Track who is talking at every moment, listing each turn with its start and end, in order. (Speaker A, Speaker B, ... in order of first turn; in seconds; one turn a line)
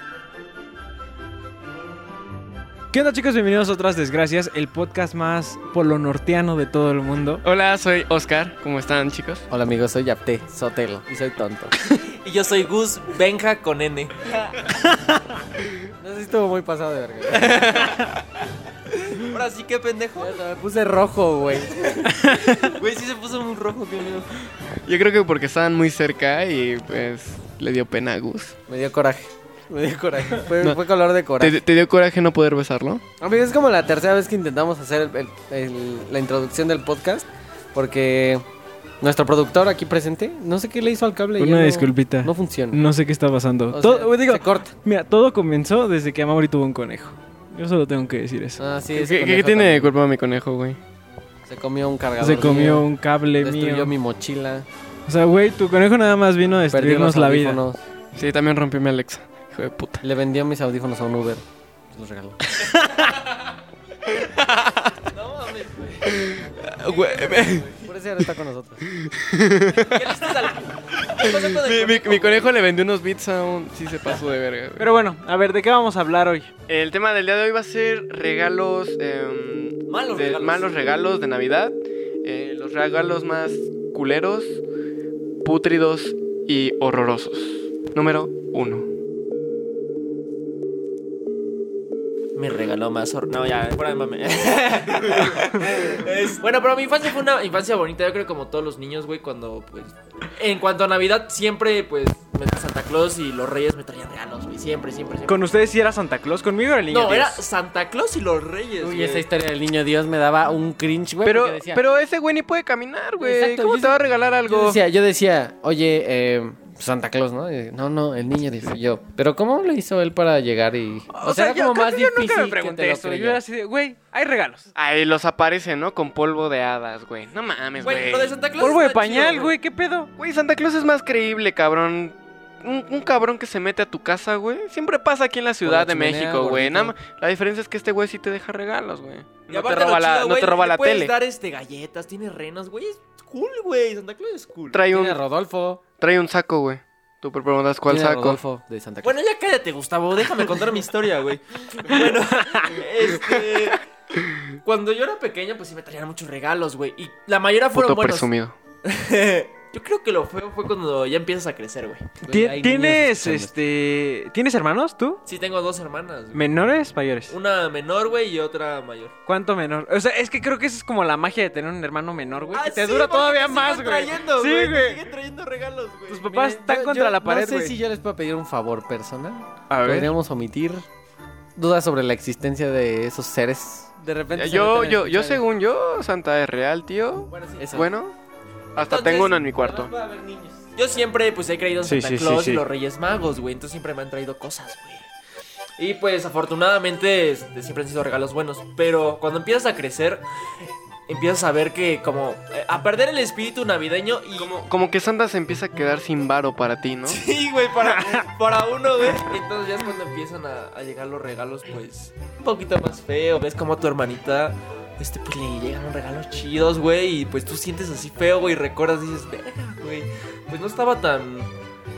Speaker A: 2.9-7.4
Speaker B: 7.4-9.4
Speaker C: 9.5-11.7
Speaker D: 11.9-14.6
Speaker C: 16.0-17.5
Speaker D: 19.1-20.4
Speaker C: 20.2-22.1
Speaker D: 21.8-24.3
Speaker A: 22.2-22.7
Speaker B: 24.8-28.6
Speaker C: 28.7-31.6
Speaker B: 31.4-33.0
Speaker C: 33.2-38.4
Speaker C: 39.0-42.8
Speaker A: 41.4-48.6
Speaker C: 43.7-44.7
Speaker C: 48.6-49.9
Speaker B: 48.9-50.8
Speaker C: 51.5-54.7
Speaker A: 52.2-53.9
Speaker A: 55.1-57.6
Speaker C: 56.7-57.8
Speaker B: 58.1-60.0
Speaker C: 60.0-62.4
Speaker B: 64.1-65.0
Speaker D: 65.1-67.9
Speaker B: 66.0-67.7
Speaker C: 67.8-68.8
Speaker B: 68.9-70.4
Speaker D: 69.7-72.5
Speaker B: 71.1-74.9
Speaker A: 74.8-76.5
Speaker B: 76.7-84.6
Speaker D: 79.9-80.7
Speaker B: 85.4-88.9
Speaker D: 92.3-105.5
Speaker A: 105.3-107.4
Speaker D: 106.9-109.2
Speaker C: 108.8-111.8
Speaker B: 111.2-114.8
Speaker C: 113.2-123.4
Speaker A: 121.1-124.7
Speaker B: 124.8-128.3
Speaker D: 127.8-129.5
Speaker A: 128.6-130.1
Speaker B: 130.2-141.1
Speaker C: 135.6-136.9
Speaker D: 139.5-144.8
Speaker B: 144.7-145.2
Speaker C: 144.9-145.8
Speaker B: 146.0-148.4
Speaker C: 147.9-149.1
Speaker D: 149.0-153.8
Speaker A: 152.3-152.8
Speaker D: 154.6-158.3
Speaker B: 157.7-158.5
Speaker D: 158.8-162.2
Speaker C: 162.2-163.5
Speaker A: 162.3-165.2
Speaker D: 165.2-166.5
Speaker A: 166.3-167.3
Speaker D: 167.3-169.1
Speaker A: 169.3-175.1
Speaker D: 172.5-176.3
Speaker A: 176.1-177.8
Speaker C: 176.3-180.8
Speaker A: 179.7-180.1
Speaker C: 181.6-185.4
Speaker B: 184.3-188.1
Speaker D: 187.3-187.8
Speaker C: 187.6-187.9
Speaker D: 188.8-189.4
Speaker B: 188.8-189.9
Speaker C: 189.5-190.6
Speaker D: 190.8-195.1
Speaker A: 191.8-192.6
Speaker D: 195.8-204.5
Speaker B: 204.4-207.2
Speaker D: 207.1-221.5